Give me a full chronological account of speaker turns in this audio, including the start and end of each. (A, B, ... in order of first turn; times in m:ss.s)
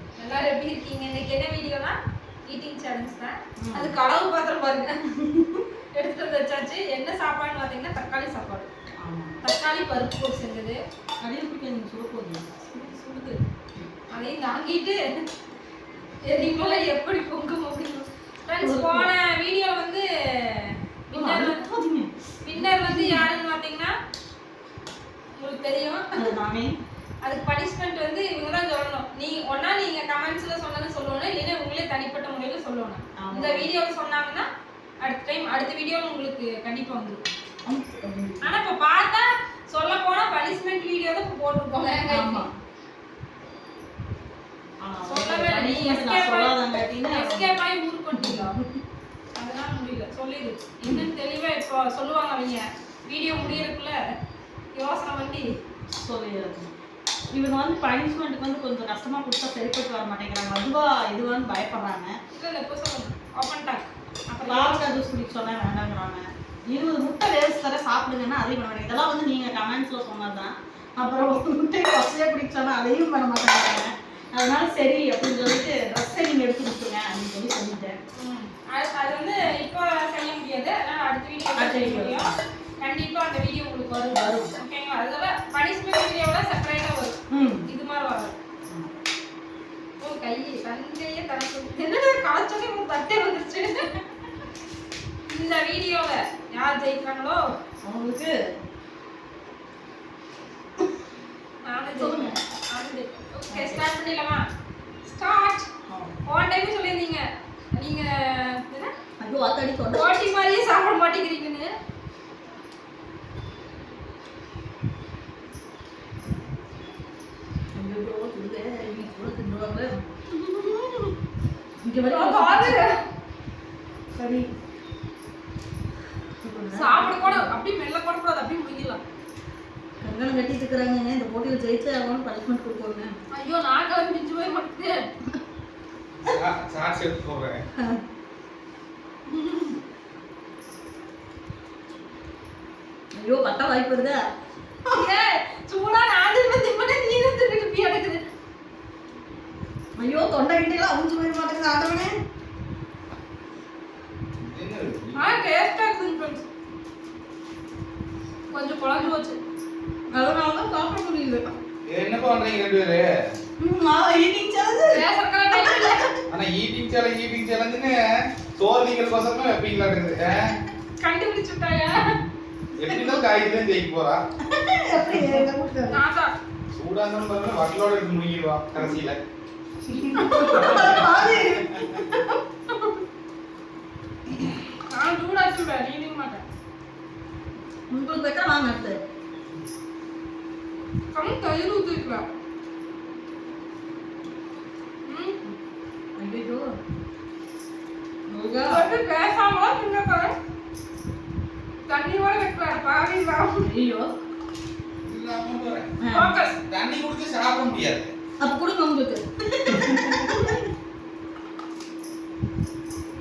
0:00.2-0:04.9 A
0:03.6-0:04.0 B
0:05.2-0:05.6 B
0:05.9-0:08.7 A
0:09.0-0:09.4 B
0:09.4-0:10.8 A
0:11.2-0:12.4 B
0:12.7-0:13.4 A
0:14.1-0:15.0 A
0:16.2-0:21.6 A
0:18.6-0:19.1 B
0:21.1-0:23.2 B
0:22.4-0:23.9 A
0:25.4-0:26.2 A
0:26.2-0:26.7 B
0:27.2-0:34.5 A
0:33.2-0:33.7 B
0:35.0-0:37.2 A
0:37.6-0:38.5 B
0:38.4-0:42.4 A
0:42.1-0:42.5 B
0:44.8-0:47.6 B
0:45.1-0:48.6 A
0:48.1-0:48.8 B
0:49.4-0:54.0 A
0:53.3-0:53.6 B
0:54.7-0:55.5 A
0:55.9-0:56.7 B
0:57.3-1:02.1 B
1:02.3-1:04.9 A
1:04.4-1:18.0 B
1:18.2-1:28.3 A
1:21.6-1:22.3 B
1:24.1-1:24.5 B
1:27.3-1:27.7 B
1:30.0-1:34.0 A
1:35.3-1:37.4 A
1:37.8-1:38.4 B
1:41.6-1:44.4 A
1:41.9-1:42.4 B
1:43.5-1:43.9 B
1:45.0-1:45.7 A
1:45.9-1:46.1 B
1:46.2-1:48.9 A
1:49.2-1:50.1 B
1:49.9-1:51.7 A
1:57.7-1:59.9 B
2:01.8-2:02.8 B
2:02.1-2:02.9 A
2:04.1-2:04.5 B
2:06.4-2:07.5 B
2:06.7-2:09.0 A
2:10.0-2:13.1 B
2:13.3-2:15.0 A
2:16.2-2:17.6 C
2:17.8-2:18.0 B
2:19.3-2:19.7 B
2:23.1-2:24.2 B
2:24.9-2:28.2 A
2:30.0-2:32.1 B
2:34.4-2:35.4 C
2:35.2-2:36.4 A
2:38.5-2:39.4 A
2:40.1-2:41.5 B
2:41.9-2:43.1 C
2:43.6-2:46.2 B
2:44.9-2:46.1 A
2:46.3-2:50.6 C
2:51.0-2:52.2 A
2:52.8-2:54.2 C
2:52.9-2:53.2 B
2:54.4-2:56.0 B
2:55.9-2:56.3 A
2:56.7-2:59.2 C
2:59.8-3:02.4 B
3:00.2-3:00.8 A
3:00.5-3:01.5 C
3:04.9-3:06.4 A
3:07.9-3:09.0 B
3:11.1-3:12.2 A
3:15.0-3:15.4 A
3:16.2-3:16.7 B
3:18.3-3:18.9 B
3:18.6-3:20.3 A
3:21.9-3:23.6 A
3:23.6-3:24.1 B
3:25.0-3:26.0 C
3:26.0-3:26.3 B
3:26.1-3:26.6 A
3:26.7-3:28.1 C
3:28.4-3:30.6 B